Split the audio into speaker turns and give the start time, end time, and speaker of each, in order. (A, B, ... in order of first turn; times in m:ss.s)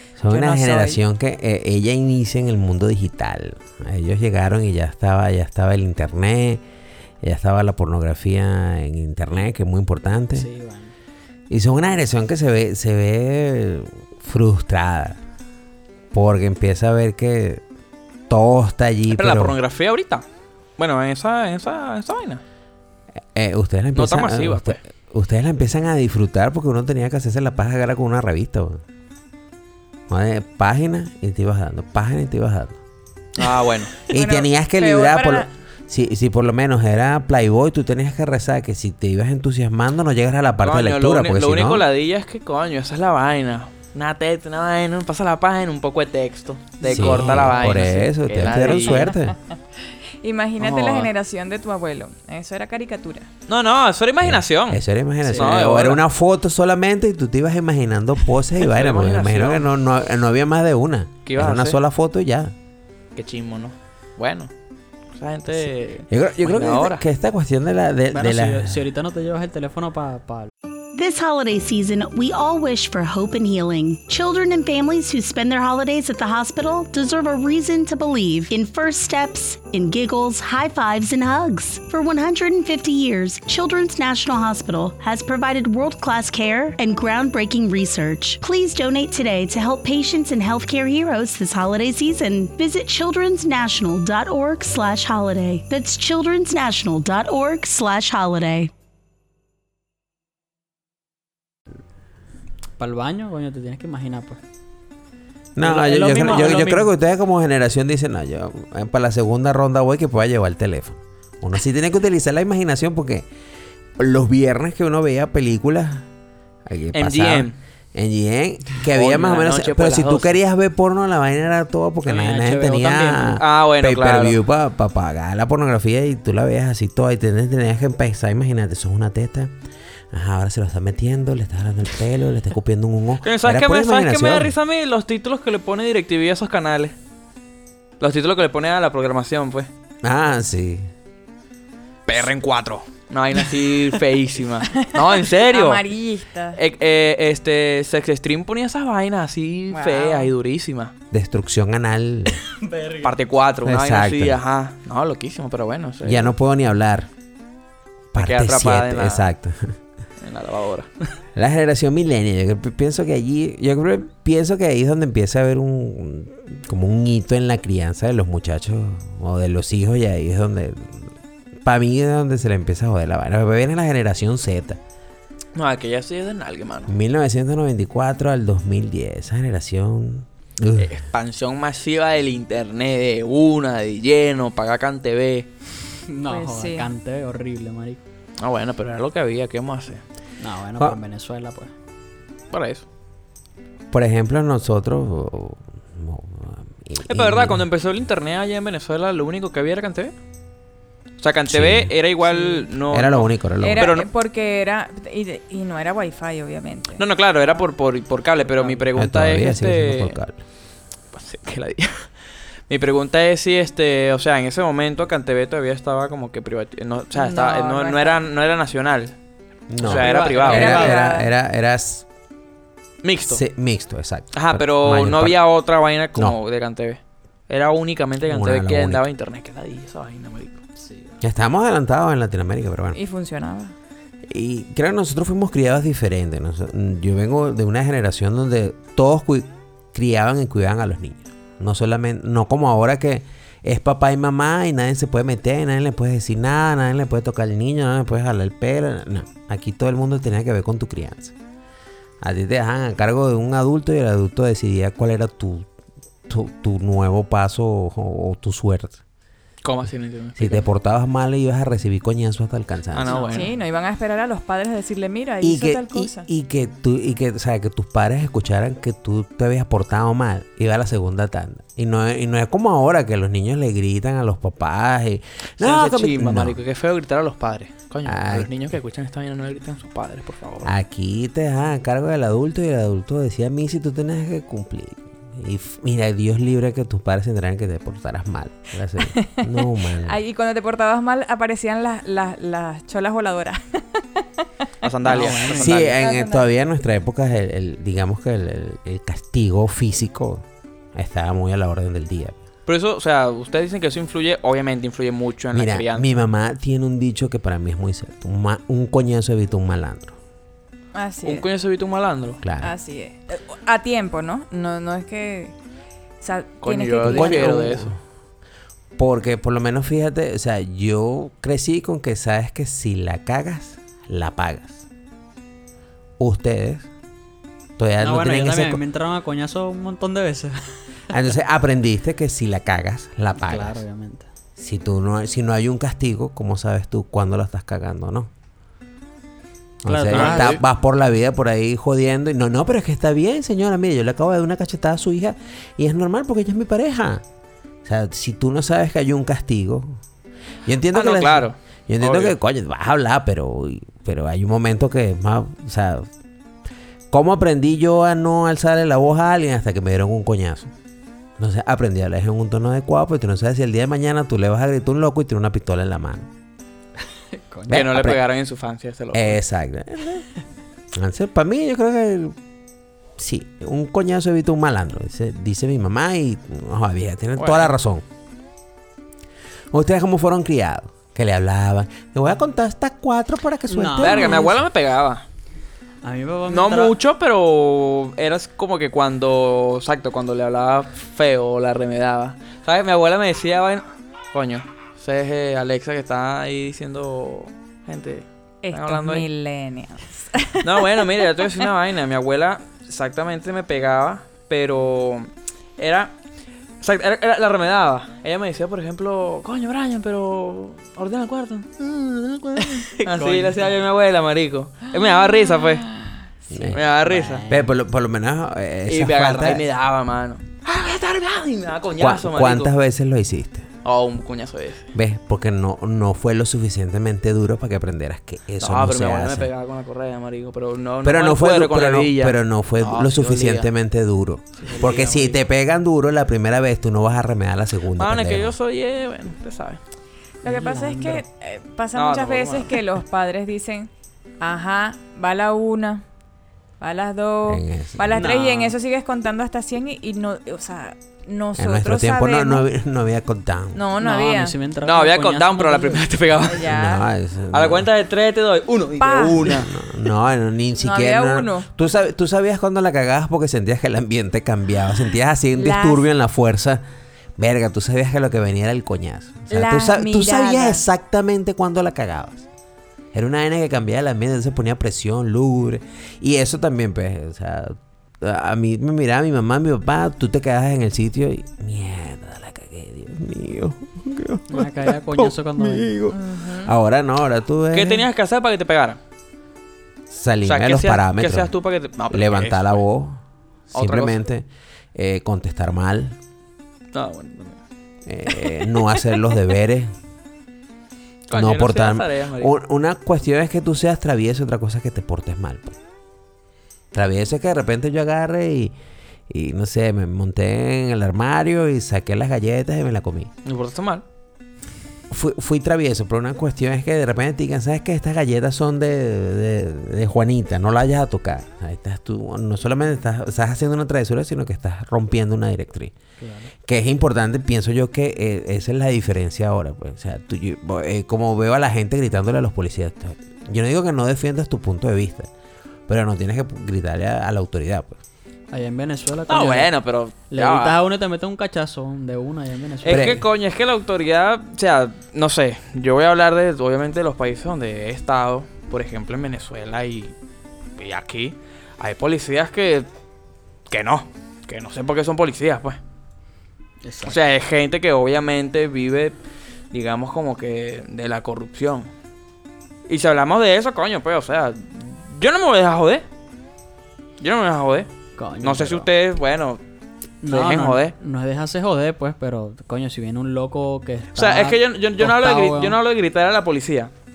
0:00.2-0:06.6 A
0:00.3-0:01.0 B
0:07.2-0:10.5 A
0:10.3-0:10.9 B
0:11.5-0:15.2 A
0:16.1-0:17.6 A
0:18.3-0:19.6 A
0:19.1-0:20.2 C
0:20.8-0:22.4 C
0:23.3-0:28.8 A
0:23.9-0:24.8 C
0:30.1-0:32.8 A
0:33.4-0:34.0 C
0:34.0-0:35.5 D
0:34.1-0:41.8 A
0:40.6-0:49.1 C
0:46.8-0:47.2 D
0:46.9-0:49.4 A
0:48.7-0:49.3 D
0:49.9-0:53.3 D
0:50.6-0:51.1 C
0:53.5-0:56.0 C
0:54.2-1:02.5 A
0:55.2-0:55.5 B
0:58.6-0:59.7 C
1:01.2-1:01.8 C
1:03.1-1:04.5 C
1:05.1-1:07.0 C
1:06.1-1:08.8 A
1:08.1-1:10.5 B
1:10.9-1:38.7 E
1:42.8-1:44.4 B
1:45.6-1:53.3 A
1:45.6-1:46.9 B
1:54.0-1:56.1 A
1:56.6-2:09.5 A
1:56.9-1:57.6 C
1:58.9-2:00.4 C
2:02.0-2:03.4 B
2:03.4-2:04.4 C
2:10.1-2:14.5 A
2:13.2-2:16.9 C
2:18.0-2:19.7 C
2:20.0-2:20.9 A
2:22.1-2:25.8 C
2:24.7-2:26.6 D
2:26.6-2:30.9 C
2:29.7-2:30.3 D
2:31.1-2:32.4 A
2:32.5-2:33.1 B
2:33.0-2:36.3 C
2:33.6-2:34.4 A
2:36.0-2:37.1 A
2:38.1-2:39.8 A
2:38.2-2:39.3 C
2:40.2-2:40.9 C
2:41.4-2:51.1 A
2:51.6-2:54.8 A
2:55.5-2:56.9 C
2:56.9-3:00.9 A
3:00.8-3:05.5 C
3:06.1-3:08.0 B
3:06.3-3:06.9 D
3:08.4-3:10.0 C
3:10.4-3:11.7 B
3:12.5-3:12.8 C
3:13.9-3:17.6 A
3:17.1-3:20.1 C
3:21.2-3:24.1 C
3:21.5-3:21.9 A
3:22.2-3:22.7 D
3:22.9-3:23.9 A
3:23.6-3:27.0 D
3:27.0-3:30.2 C
3:28.9-3:30.4 A
3:31.1-3:32.1 C
3:32.7-3:39.1 C
3:37.1-3:38.2 D
3:39.7-3:42.0 A
3:39.8-3:40.9 C
3:39.8-3:41.0 B
3:40.5-3:41.3 D
3:43.0-3:43.4 C
3:43.3-3:45.4 A
3:44.3-3:50.6 C
3:48.3-3:49.0 A
3:50.8-3:51.2 B
3:51.2-3:53.0 A
3:52.9-3:53.7 D
3:54.3-4:11.3 A
4:12.2-4:15.7 A
4:16.3-4:19.0 A
4:19.6-4:20.6 C
4:20.4-4:23.4 A
4:22.9-4:23.5 C
4:23.1-4:26.3 D
4:25.4-4:36.6 A
4:35.6-4:40.7 C
4:38.0-4:38.5 A
4:40.6-4:50.2 A
4:49.0-4:54.4 D
4:54.8-4:56.0 C
4:55.0-4:56.5 D
4:55.0-4:55.8 B
4:55.6-5:00.4 A
5:00.9-5:02.4 A
5:02.6-5:06.1 C
5:05.5-5:10.2 A
5:10.9-5:11.5 D
5:11.2-5:12.4 C
5:12.4-5:12.7 A
5:12.6-5:15.5 D
5:16.2-5:17.6 D
5:16.6-5:18.0 C
5:17.0-5:18.0 A
5:19.0-5:24.8 A
5:26.2-5:26.9 A
5:27.8-5:28.8 A
5:28.0-5:30.8 B
5:31.1-5:33.8 A
5:33.4-5:34.3 B
5:34.6-5:38.3 A
5:39.8-5:47.2 A
5:39.8-5:40.6 B
5:40.1-5:40.6 C
5:47.8-5:50.0 A
5:50.6-5:56.1 A
5:50.9-5:52.3 C
5:57.1-6:00.7 A
6:01.4-6:06.3 A
6:07.3-6:07.8 B
6:07.7-6:08.2 A
6:07.7-6:09.4 C
6:09.1-6:10.2 A
6:10.9-6:12.4 A
6:13.2-6:18.0 A
6:17.4-6:17.7 C
6:19.7-6:24.6 A
6:23.7-6:24.6 B
6:24.0-6:25.2 C
6:26.0-6:26.9 B
6:26.5-6:39.2 C
6:38.6-6:40.8 D
6:40.6-6:46.1 C
6:46.8-6:55.9 C
6:53.0-6:53.7 B
6:56.5-6:56.8 A
6:56.7-6:57.4 C
6:56.8-6:57.7 B
6:57.5-6:59.6 A
6:58.9-7:02.7 C
7:02.0-7:03.7 A
7:03.8-7:04.9 C
7:04.9-7:09.5 A
7:08.6-7:13.7 C
7:11.0-7:18.5 A
7:14.6-7:15.3 C
7:14.6-7:15.2 B
7:18.0-7:19.8 C
7:20.4-7:26.0 D
7:20.4-7:21.2 B
7:21.9-7:22.8 C
7:26.8-7:32.6 D
7:27.4-7:28.2 A
7:28.1-7:28.7 B
7:31.6-7:33.8 A
7:33.7-7:34.6 D
7:34.0-7:36.1 B
7:34.8-7:36.7 C
7:36.4-7:37.0 D
7:36.6-7:37.9 A
7:37.5-7:39.7 C
7:39.0-7:39.6 D
7:39.4-7:46.8 A
7:40.8-7:41.7 D
7:45.5-7:46.0 D
7:47.4-7:52.5 A
7:49.5-7:50.8 D
7:53.1-8:08.1 A
8:04.5-8:05.9 B
8:06.1-8:06.7 D
8:07.7-8:09.0 C
8:10.1-8:11.5 A
8:10.4-8:12.8 C
8:12.1-8:13.2 A
8:13.7-8:16.2 A
8:13.7-8:14.2 C
8:16.9-8:17.6 C
8:18.0-8:19.9 A
8:21.3-8:22.5 C
8:21.3-8:25.8 A
8:26.9-8:28.7 A
8:29.3-8:33.3 A
8:33.4-8:34.0 C
8:35.1-8:45.9 A
8:46.2-8:46.5 B
8:46.6-8:55.3 A
8:55.9-8:58.0 A
8:58.5-8:59.7 B
8:59.3-9:00.8 C
9:00.3-9:03.2 B
9:02.8-9:10.1 C
9:02.8-9:03.2 A
9:10.8-9:12.9 C
9:13.7-9:15.8 C
9:16.8-9:17.2 B
9:17.0-9:19.2 C
9:19.7-9:21.9 C
9:22.9-9:26.0 C
9:27.2-9:27.9 C
9:28.2-9:28.9 B
9:28.4-9:29.6 C
9:30.2-9:35.8 B
9:30.3-9:30.9 C
9:34.1-9:36.9 C